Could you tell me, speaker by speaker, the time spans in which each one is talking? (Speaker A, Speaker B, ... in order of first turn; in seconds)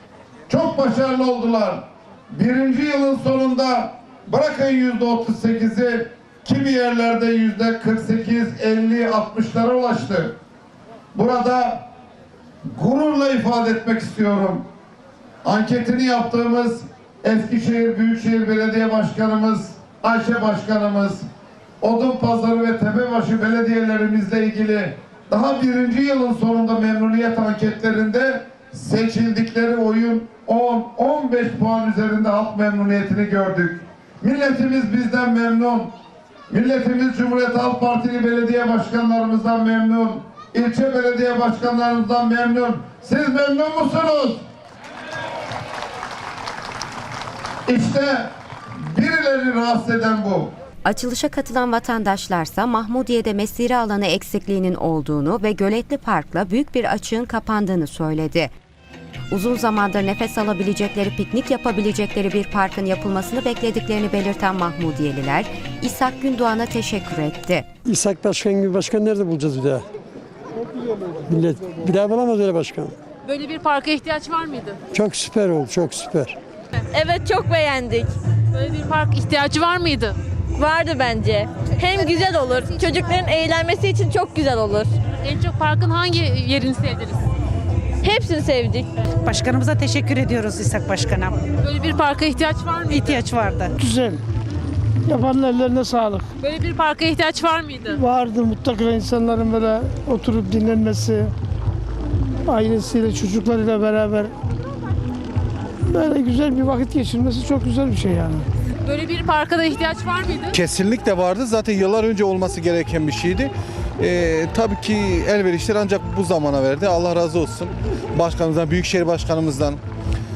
Speaker A: 0.5-10.4, 11.1-11.9, 12.8-14.7, 15.4-21.3, 21.8-35.9, 36.5-44.4, 47.7-48.3, 48.9-50.5
Speaker B: 50.9-58.5, 59.3-67.7
Speaker C: 67.8-69.8, 71.3-73.0, 74.9-76.4
Speaker D: 73.3-74.8, 78.5-80.2, 85.1-87.2, 91.6-93.2, 96.4-98.0, 108.8-110.6
Speaker E: 76.9-78.1, 80.6-85.0, 88.0-88.9
Speaker F: 89.2-91.5, 92.9-93.7
Speaker G: 93.8-94.2, 95.1-96.3, 98.0-101.3, 102.5-104.3, 105.9-108.5
Speaker H: 110.5-119.8